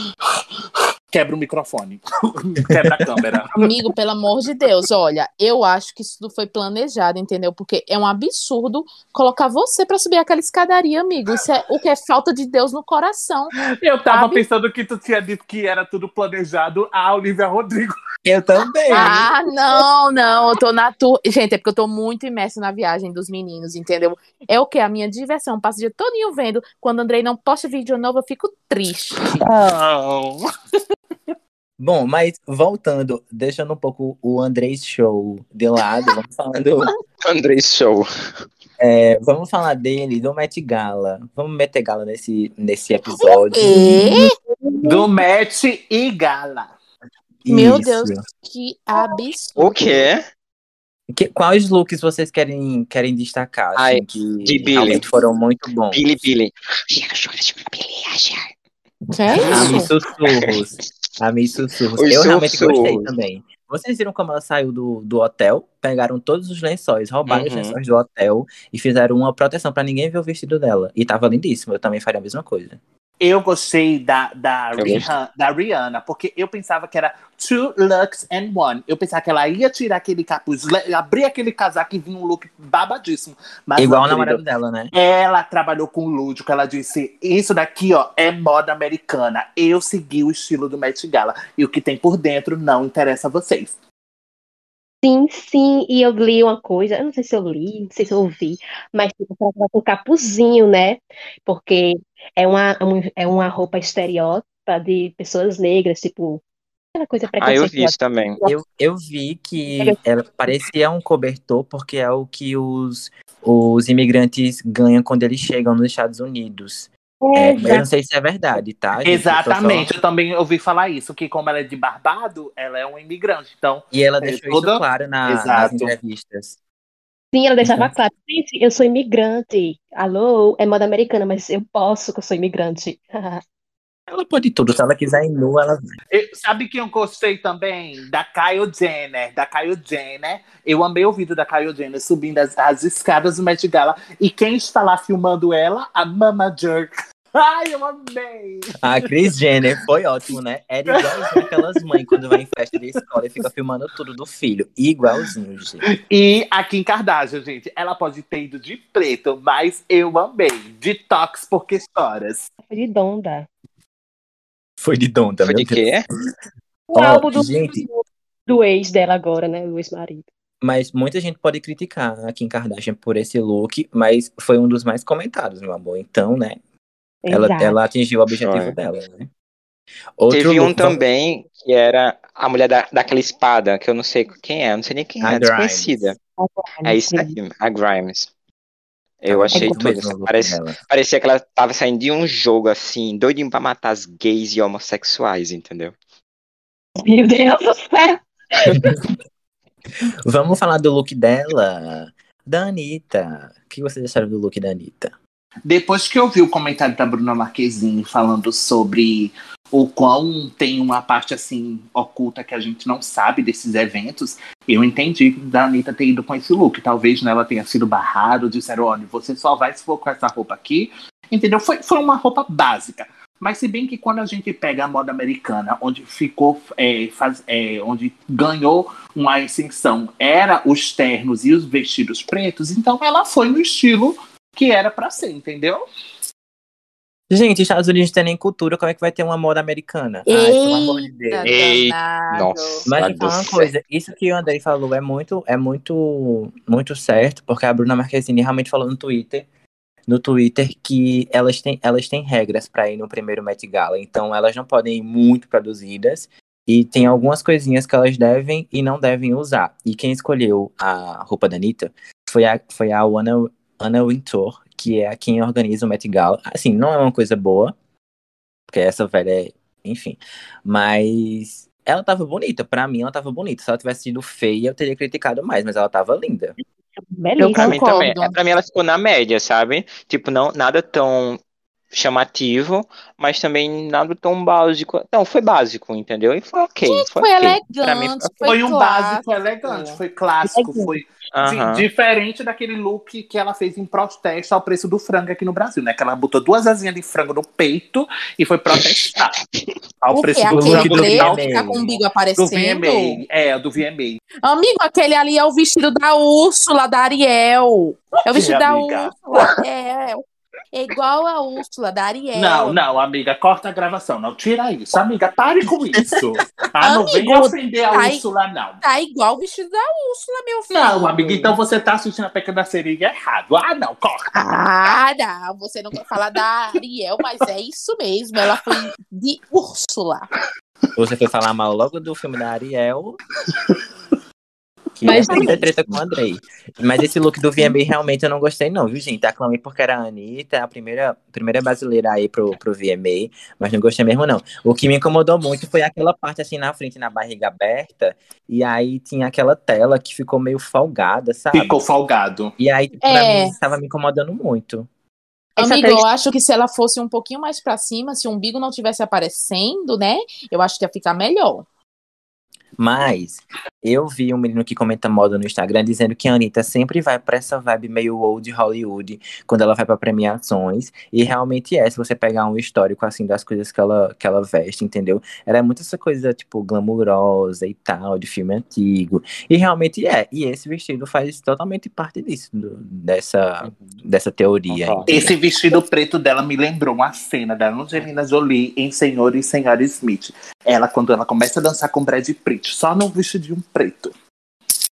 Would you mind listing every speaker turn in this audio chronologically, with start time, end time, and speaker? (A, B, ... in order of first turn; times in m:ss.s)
0:00.3-0:03.7 A
0:03.6-0:13.6 B
0:13.6-0:18.0 A
0:14.1-0:14.4 B
0:18.2-0:19.2 C
0:18.9-0:29.5 B
0:29.4-0:30.4 A
0:31.8-0:36.9 C
0:37.2-0:38.1 D
0:38.8-0:44.3 C
0:43.2-0:44.3 B
0:44.7-0:45.0 E
0:44.8-0:46.7 A
0:47.4-0:48.2 C
0:47.5-0:50.1 B
0:49.6-0:50.2 D
0:51.1-0:56.0 C
0:53.8-0:55.0 D
0:55.9-0:58.5 D
0:59.1-0:59.9 B
0:59.5-1:00.6 D
0:59.5-1:12.8 C
1:02.0-1:03.1 D
1:07.3-1:07.8 D
1:13.2-1:24.4 A
1:14.8-1:15.0 D
1:23.8-1:24.9 C
1:24.9-1:33.8 A
1:35.0-1:46.4 E
1:47.0-1:48.5 E
1:47.4-1:48.4 D
1:48.4-1:59.9 C
1:57.2-1:57.9 E
1:59.0-2:05.9 A
2:03.9-2:06.6 C
2:07.3-2:13.4 E
2:07.6-2:07.9 C
2:14.1-2:16.0 C
2:16.1-2:29.1 A
2:28.8-2:35.8 C
2:30.9-2:32.4 A
2:35.9-2:42.5 A
2:42.7-2:43.5 E
2:44.8-2:45.9 C
2:45.4-2:46.0 D
2:46.9-2:50.2 E
2:47.0-2:47.8 C
2:50.6-2:56.6 C
2:57.2-2:57.8 E
2:57.3-2:59.3 C
2:58.4-2:58.8 D
3:00.2-3:01.0 C
3:00.3-3:06.2 D
3:05.2-3:06.1 C
3:06.4-3:07.3 E
3:06.9-3:08.3 D
3:09.2-3:16.0 D
3:09.3-3:10.8 C
3:09.5-3:09.8 E
3:17.0-3:18.9 E
3:20.2-3:25.1 C
3:25.7-3:55.8 A
3:57.3-4:01.5 C
4:00.3-4:02.9 B
4:01.4-4:03.7 D
4:02.9-4:09.5 C
4:10.1-4:27.7 C
4:28.7-4:36.6 C
4:37.2-4:37.8 E
4:37.4-4:38.4 B
4:37.5-4:41.4 D
4:41.9-4:48.4 D
4:46.9-4:50.0 B
4:48.4-4:59.4 A
4:51.3-4:51.9 D
5:00.0-5:01.4 A
5:00.1-5:03.2 B
5:00.5-5:01.8 C
5:02.4-5:04.2 A
5:04.4-5:12.9 B
5:08.3-5:09.4 A
5:12.4-5:18.8 A
5:16.8-5:18.2 B
5:18.8-5:21.6 B
5:20.7-5:24.3 A
5:24.4-5:30.3 B
5:31.0-5:33.2 C
5:33.5-5:33.8 A
5:35.0-5:51.8 C
5:35.0-5:35.6 E
5:51.5-5:52.5 A
5:52.6-5:54.9 C
5:53.0-5:53.5 B
5:55.6-6:01.6 B
5:55.6-5:56.0 E
6:02.8-6:25.4 C
6:23.6-6:24.0 D
6:24.7-6:25.2 D
6:25.0-6:34.1 A